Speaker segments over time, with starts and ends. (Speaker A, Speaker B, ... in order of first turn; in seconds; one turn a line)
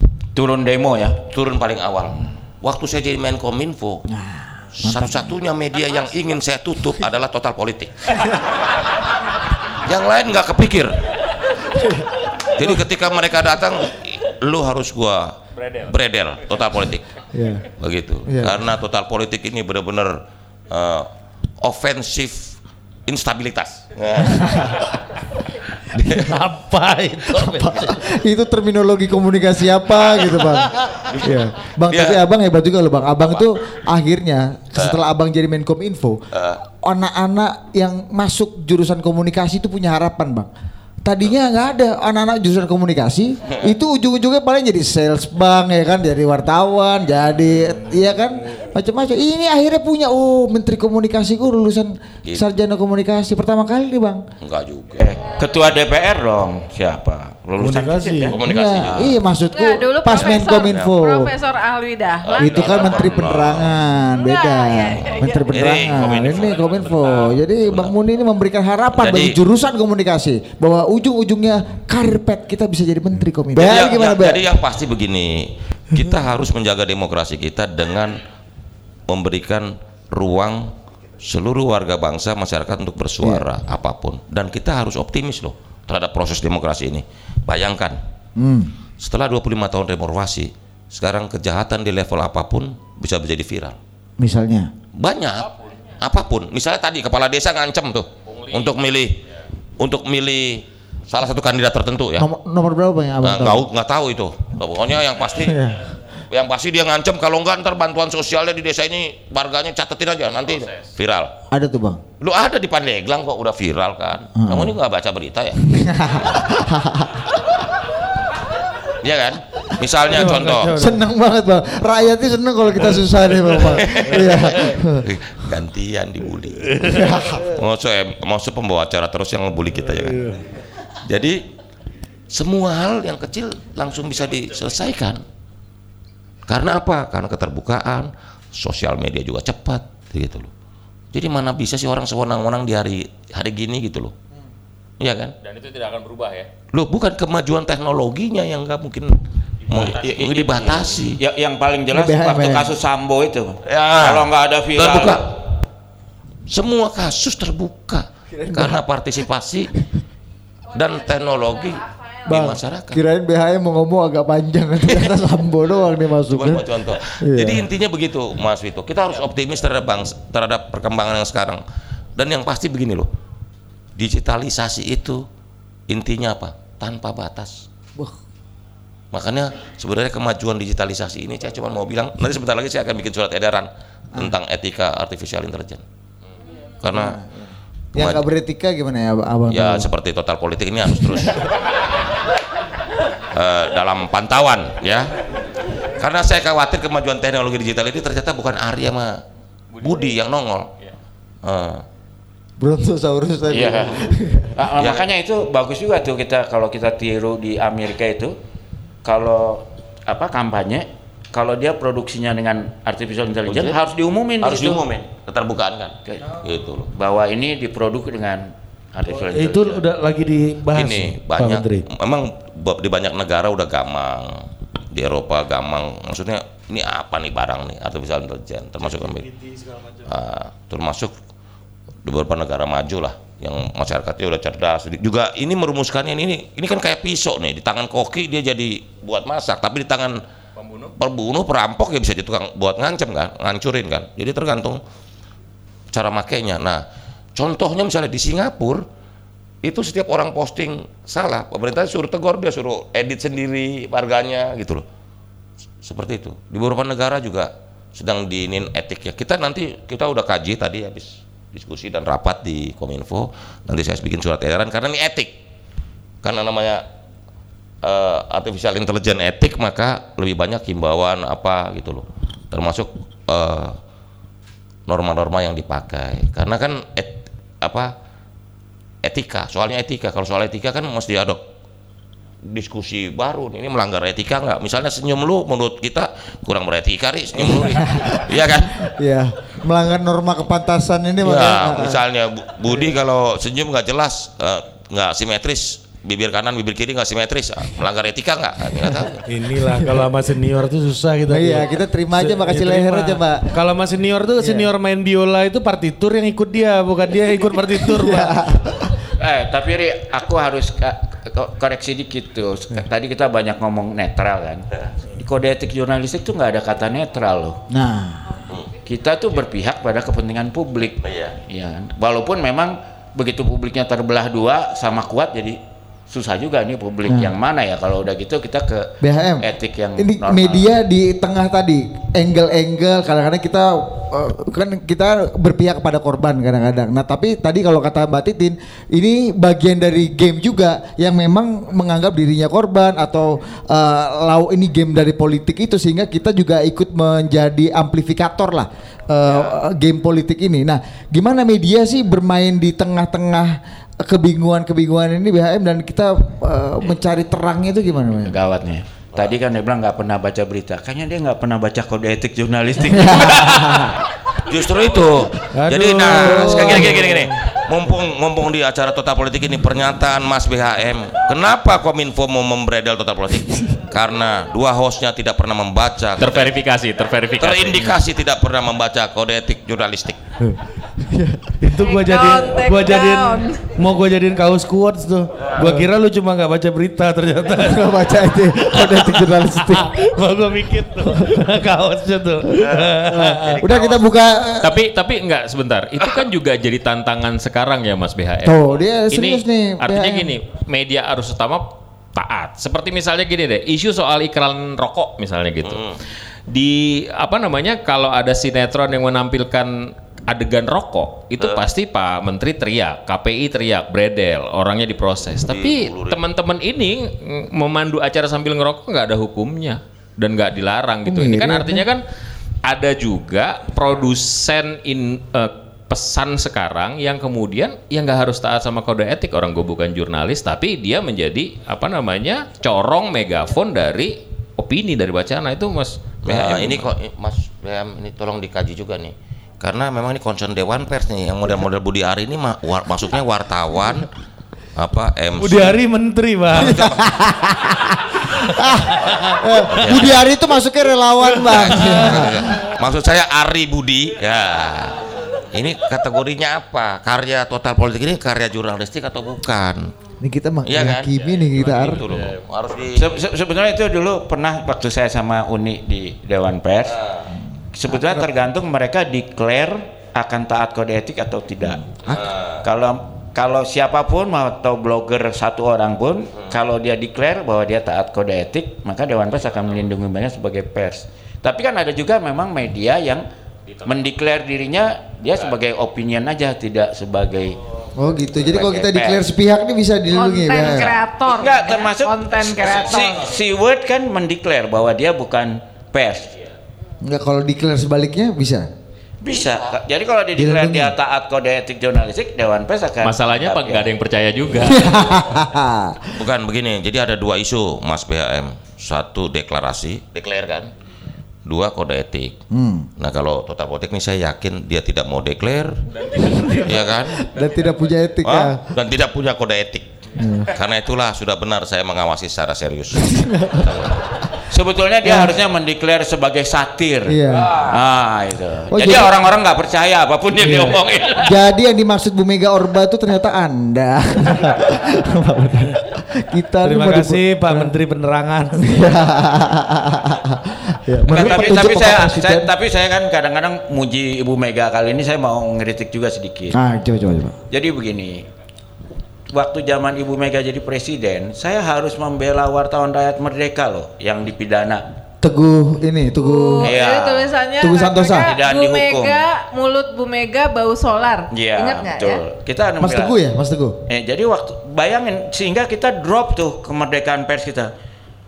Speaker A: 0.3-1.2
Speaker B: 1.3-4.1
Speaker C: 4.1-5.3
Speaker B: 4.8-8.2
Speaker B: 9.8-11.0
Speaker C: 11.7-12.8
Speaker B: 12.5-15.4
Speaker D: 15.6-15.9
Speaker B: 15.9-17.1
Speaker C: 17.3-17.7
Speaker B: 17.8-21.1
Speaker C: 18.2-18.6
Speaker B: 21.6-24.9
Speaker C: 24.2-24.7
Speaker E: 26.0-27.6
Speaker C: 27.3-36.2
Speaker B: 27.4-27.8
Speaker B: 30.2-32.2
Speaker B: 34.7-35.0
Speaker B: 36.3-36.6
Speaker C: 36.8-40.5
Speaker C: 41.0-54.2
Speaker B: 54.4-55.4
Speaker A: 55.0-58.4
Speaker E: 57.6-58.3
Speaker B: 58.3-59.2
Speaker C: 58.3-61.3
Speaker F: 59.5-63.5
Speaker B: 60.7-61.0
Speaker B: 62.2-63.8
Speaker C: 62.4-74.5
Speaker F: 64.1-65.7
Speaker B: 65.5-67.9
Speaker B: 69.0-69.4
Speaker B: 73.5-78.2
Speaker B: 79.1-88.0
Speaker C: 88.3-88.7
Speaker B: 89.0-93.8
Speaker C: 94.2-94.7
Speaker B: 94.9-99.2
Speaker D: 98.2-98.8
Speaker B: 99.8-102.3
Speaker C: 102.2-103.7
Speaker B: 103.2-105.6
Speaker C: 105.4-105.9
Speaker B: 106.3-111.3
Speaker D: 110.5-110.9
Speaker C: 111.5-112.0
Speaker B: 112.2-115.6
Speaker C: 114.4-114.8
Speaker C: 115.6-117.3
Speaker B: 118.9-120.8
Speaker E: 120.0-121.0
Speaker C: 120.7-125.1
Speaker B: 123.5-130.4
Speaker E: 126.8-127.0
Speaker C: 126.8-127.5
Speaker E: 130.0-130.4
Speaker B: 131.0-131.4
Speaker B: 132.3-135.2
Speaker B: 136.5-140.5
Speaker B: 141.1-144.1
Speaker B: 145.0-145.3
Speaker D: 145.4-146.5
Speaker B: 146.7-149.2
Speaker D: 149.6-150.8
Speaker B: 149.7-151.2
Speaker A: 149.8-155.2
Speaker C: 151.9-152.7
Speaker B: 153.7-155.2
Speaker B: 156.5-159.7
Speaker C: 158.3-158.8
Speaker F: 160.7-162.2
Speaker B: 160.7-163.0
Speaker C: 162.3-167.7
Speaker B: 164.8-165.1
Speaker B: 166.2-171.6
Speaker B: 172.2-173.1
Speaker B: 173.9-175.2
Speaker B: 175.9-177.7
Speaker B: 179.1-185.8
Speaker B: 186.8-187.2
Speaker C: 186.8-189.9
Speaker B: 187.9-188.2
Speaker B: 189.5-191.6
Speaker B: 193.3-195.2
Speaker B: 195.9-199.2
Speaker B: 199.8-200.7
Speaker B: 201.4-201.8
Speaker C: 202.6-204.5
Speaker A: 203.5-204.0
Speaker A: 204.6-208.3
Speaker B: 204.8-205.1
Speaker A: 209.0-214.9
Speaker B: 213.5-213.8
Speaker B: 214.4-216.9
Speaker A: 216.1-216.3
Speaker A: 216.9-219.8
Speaker E: 219.1-221.9
Speaker B: 220.7-229.3
Speaker E: 228.8-230.1
Speaker B: 230.0-231.1
Speaker B: 232.0-240.2
Speaker D: 240.6-240.9
Speaker B: 241.0-244.8
Speaker B: 245.9-246.8
Speaker B: 247.3-248.8
Speaker B: 249.6-254.8
Speaker B: 255.8-265.3
Speaker B: 266.2-266.8
Speaker B: 267.8-273.8
Speaker B: 274.9-277.9
Speaker B: 279.0-281.4
Speaker B: 282.4-288.9
Speaker C: 287.4-292.0
Speaker B: 291.2-299.2
Speaker E: 299.3-308.4
Speaker C: 301.3-303.6
Speaker C: 304.4-304.7
Speaker C: 307.9-309.0
Speaker A: 309.2-314.6
Speaker A: 315.2-317.6
Speaker C: 317.7-318.5
Speaker A: 318.8-325.6
Speaker B: 321.0-321.4
Speaker A: 326.1-330.7
Speaker C: 327.1-327.3
Speaker C: 329.0-329.4
Speaker C: 330.0-358.4
Speaker A: 358.2-363.6
Speaker C: 362.9-363.9
Speaker B: 364.4-376.5
Speaker E: 365.5-367.3
Speaker C: 366.1-367.0
Speaker D: 376.2-378.0
Speaker B: 377.4-380.2
Speaker C: 381.0-381.5
Speaker E: 381.6-387.9
Speaker F: 381.8-383.7
Speaker C: 387.6-390.2
Speaker E: 388.8-393.6
Speaker B: 392.6-394.1
Speaker C: 393.1-394.8
Speaker D: 394.6-405.9
Speaker C: 398.4-400.3
Speaker B: 405.6-406.0
Speaker D: 406.5-422.0
Speaker B: 415.5-416.2
Speaker C: 421.1-421.9
Speaker D: 422.6-436.9
Speaker B: 436.2-444.1
Speaker B: 444.8-445.8
Speaker E: 445.4-446.8
Speaker C: 446.5-452.7
Speaker B: 446.6-447.2
Speaker B: 449.7-450.3
Speaker E: 451.3-452.2
Speaker B: 451.4-459.9
Speaker C: 460.2-462.0
Speaker B: 460.6-463.3
Speaker D: 461.9-462.4
Speaker A: 462.9-467.0
Speaker A: 467.7-483.2
Speaker C: 467.9-468.2
Speaker B: 472.0-472.6
Speaker D: 483.7-484.1
Speaker A: 483.8-487.6
Speaker C: 488.0-490.9
Speaker A: 488.4-489.2
Speaker F: 490.1-493.1
Speaker A: 491.2-496.3
Speaker C: 497.0-498.7
Speaker A: 499.2-503.9
Speaker C: 500.4-500.9
Speaker D: 503.0-505.1
Speaker C: 504.7-506.2
Speaker B: 506.1-510.7
Speaker B: 511.4-512.4
Speaker C: 512.5-512.9
Speaker B: 513.0-515.8
Speaker D: 515.9-516.8
Speaker C: 516.2-516.7
Speaker B: 516.6-517.2
Speaker C: 517.2-518.6
Speaker B: 518.2-519.9
Speaker C: 520.2-520.5
Speaker B: 520.5-523.9
Speaker C: 523.1-523.7
Speaker A: 524.5-531.4
Speaker C: 525.0-525.4
Speaker C: 527.1-527.6
Speaker C: 528.7-529.1
Speaker E: 530.4-530.7
Speaker C: 530.4-537.7
Speaker E: 536.6-539.1
Speaker C: 538.5-542.5
Speaker A: 541.0-546.6
Speaker C: 546.5-547.4
Speaker A: 547.5-548.2
Speaker A: 549.3-554.8
Speaker C: 555.2-556.7
Speaker F: 556.2-562.2
Speaker A: 556.6-557.3
Speaker C: 557.6-558.3
Speaker A: 558.2-559.2
Speaker A: 561.3-563.1
Speaker C: 562.8-563.8
Speaker A: 563.9-567.7